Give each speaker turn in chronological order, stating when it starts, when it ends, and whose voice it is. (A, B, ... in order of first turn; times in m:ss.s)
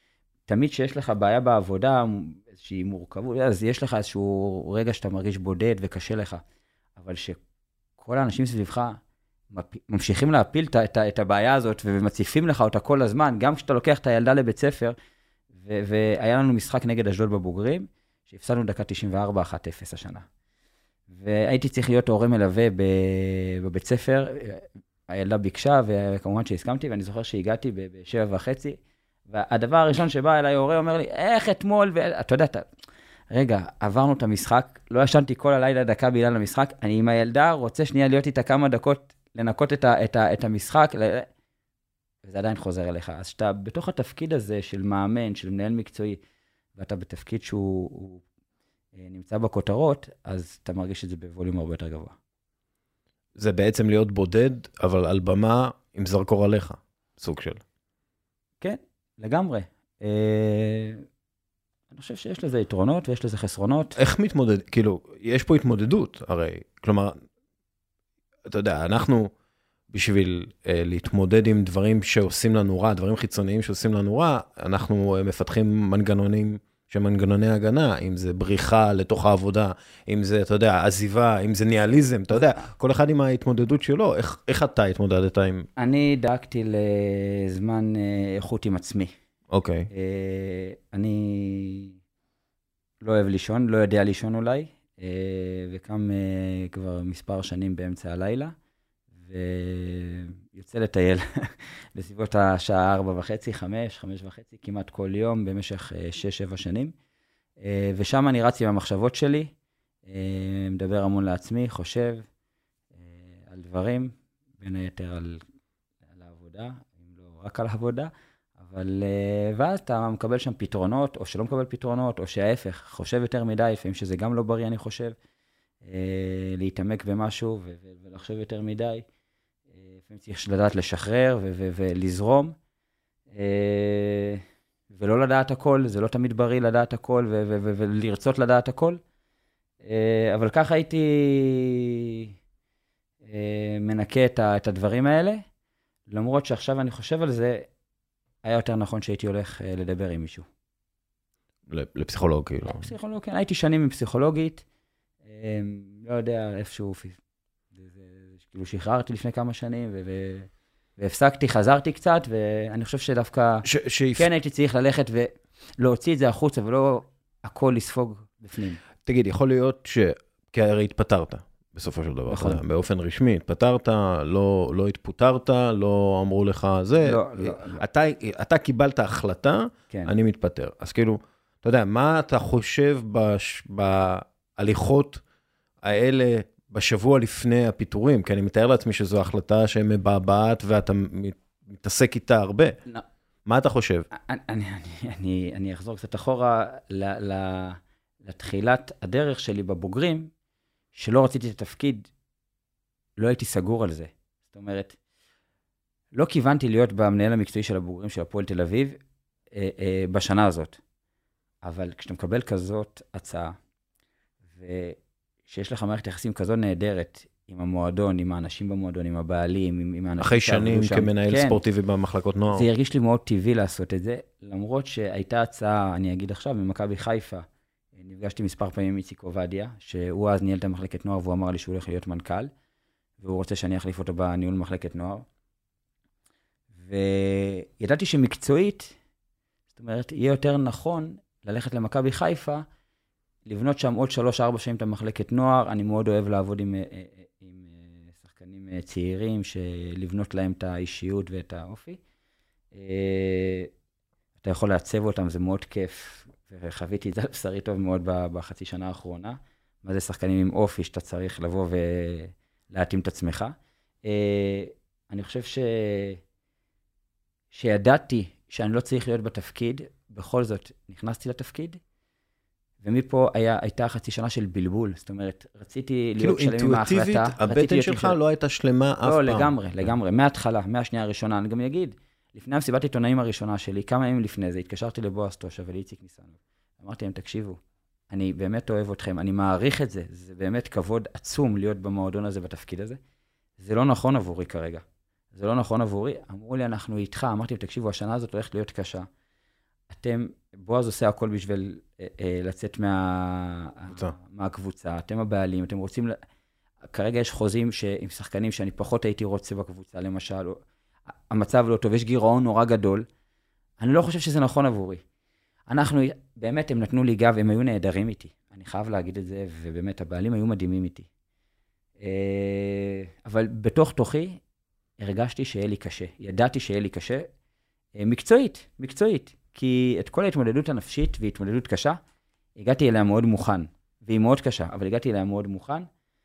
0:00.5-0:06.4 A
0:07.0-0:07.4 A
0:08.0-0:09.0 A
0:09.5-0:15.0 A
0:15.6-0:20.3 A
0:21.1-0:28.8 A
0:29.3-0:32.7 A
0:33.3-0:41.3 A
0:42.2-0:46.2 A
0:46.8-0:48.2 A
0:49.0-0:52.2 A
0:53.4-0:57.6 B
0:58.6-1:01.0 A
1:01.9-1:04.0 A
1:04.0-1:07.2 B
1:08.5-1:09.3 B
1:09.9-1:25.7 B
1:25.8-1:29.1 A
1:29.5-1:29.9 B
1:29.9-1:32.0 A
1:33.0-1:38.5 A
1:39.2-1:46.9 A
1:47.6-1:49.5 A
1:50.1-1:52.2 A
1:53.0-1:55.4 A
1:56.1-2:05.2 A
2:05.8-2:09.0 A
2:09.7-2:12.6 A
2:13.3-2:19.0 A
2:19.8-2:22.3 A
2:23.2-2:25.4 A
2:26.1-2:27.7 A
2:28.4-2:30.5 A
2:31.7-2:32.9 B
2:32.6-2:34.6 A
2:35.2-2:37.2 A
2:37.7-2:43.7 A
2:43.7-2:44.3 B
2:44.2-2:48.8 A
2:49.1-3:05.2 B
2:52.3-2:52.6 A
2:57.0-2:57.8 A
3:05.8-3:12.8 B
3:13.5-3:14.1 B
3:14.3-3:20.3 A
3:21.0-3:22.1 A
3:23.2-3:25.0 A
3:26.2-3:29.0 A
3:29.5-3:30.8 A
3:31.6-3:33.6 A
3:34.5-3:41.6 A
3:40.2-3:42.7 B
3:42.5-3:52.5 A
3:53.2-3:55.3 A
3:56.8-3:59.0 A
3:59.8-4:02.6 A
4:03.5-4:12.0 A
4:12.7-4:13.7 A
4:14.4-4:23.5 A
4:24.0-4:26.2 A
4:27.5-4:31.8 A
4:32.8-4:38.2 A
4:36.2-4:39.5 B
4:39.0-4:47.6 A
4:48.1-4:53.0 A
4:53.6-4:54.8 A
4:55.3-4:59.1 A
4:59.9-5:06.2 A
5:06.9-5:10.6 A
5:11.3-5:13.0 A
5:13.8-5:15.0 A
5:15.7-5:21.1 A
5:22.0-5:24.4 A
5:25.0-5:27.3 A
5:28.0-5:32.0 A
5:32.6-5:35.9 A